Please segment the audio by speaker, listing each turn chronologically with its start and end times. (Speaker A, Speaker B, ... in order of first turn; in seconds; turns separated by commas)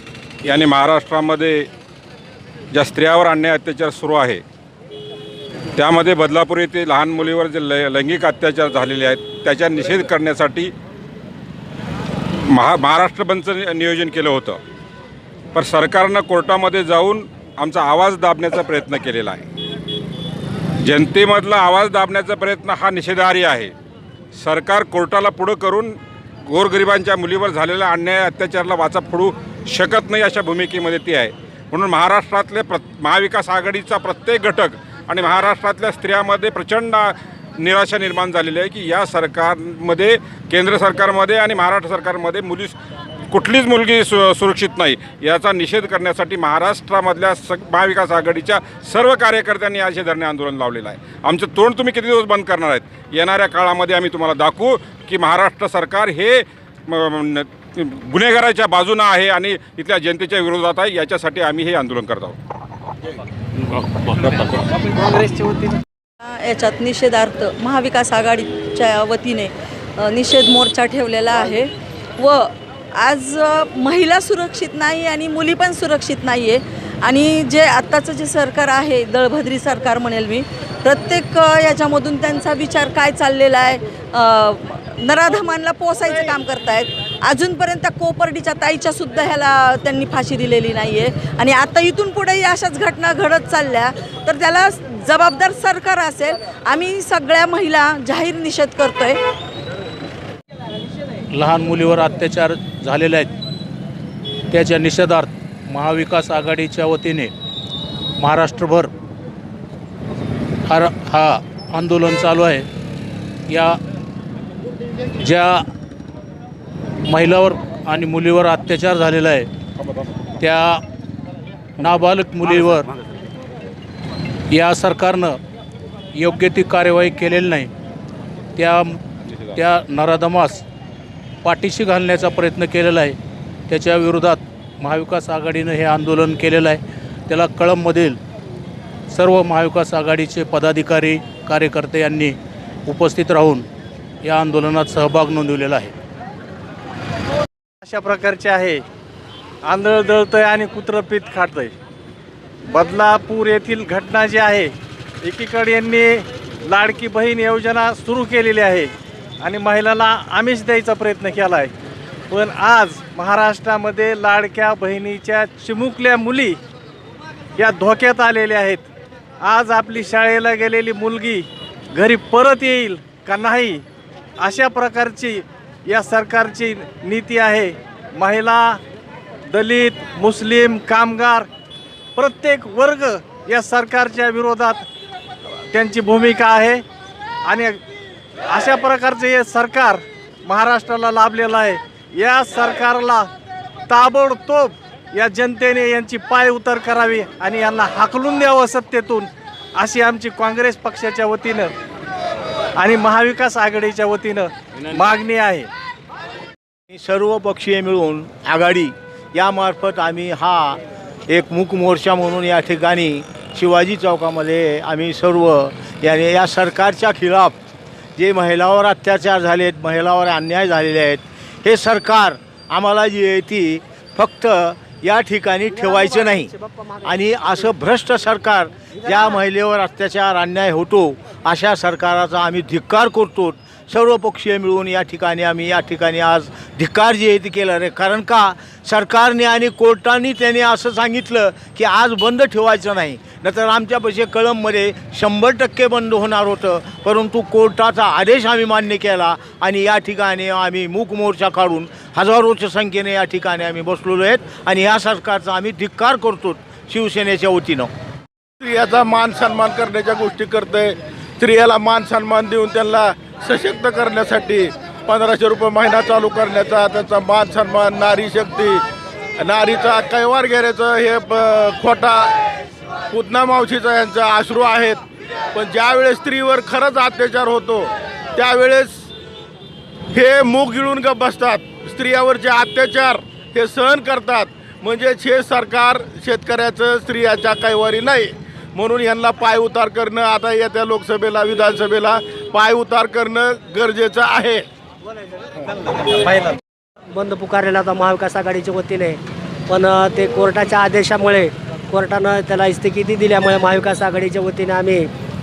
Speaker A: 0.4-1.7, Speaker A: 2.7-4.4, Speaker A: 5.8-10.7, Speaker A: 12.5-14.6, Speaker A: 15.5-19.5, Speaker A: 20.8-23.7, Speaker A: 24.4-26.0, Speaker A: 26.5-42.8, Speaker A: 43.3-62.4, Speaker B: 64.3-65.8, Speaker C: 66.2-99.2, Speaker D: 101.3-103.3, Speaker D: 104.5-107.3, Speaker D: 108.2-108.9, Speaker D: 110.7-112.7, Speaker D: 113.5-113.8, Speaker D: 115.2-115.7, Speaker D: 117.1-119.5, Speaker D: 120.4-120.8, Speaker D: 121.8-122.9, Speaker D: 124.5-125.4, Speaker D: 126.1-127.7, Speaker D: 128.6-129.0, Speaker D: 129.5-130.7, Speaker D: 131.4-133.2, Speaker D: 133.7-138.2, Speaker D: 139.1-142.4, Speaker D: 142.9-143.7, Speaker D: 144.2-145.9, Speaker B: 147.8-148.8, Speaker B: 149.6-151.7, Speaker B: 152.7-161.7, Speaker B: 162.3-166.6, Speaker B: 167.6-168.8, Speaker B: 169.4-173.8, Speaker B: 174.4-178.8, Speaker B: 179.5-181.5, Speaker B: 182.2-184.8, Speaker B: 185.7-186.8, Speaker B: 187.4-187.8, Speaker B: 188.5-193.3, Speaker B: 193.9-201.7, Speaker B: 202.8-205.7, Speaker E: 206.9-217.6, Speaker E: 218.2-226.5, Speaker F: 225.7-227.6, Speaker E: 227.0-257.9, Speaker F: 229.0-229.4, Speaker G: 258.6-268.8, Speaker G: 269.4-272.4, Speaker G: 273.1-275.0, Speaker G: 275.5-279.1, Speaker G: 280.1-294.6, Speaker B: 296.0-296.6, Speaker F: 297.1-305.1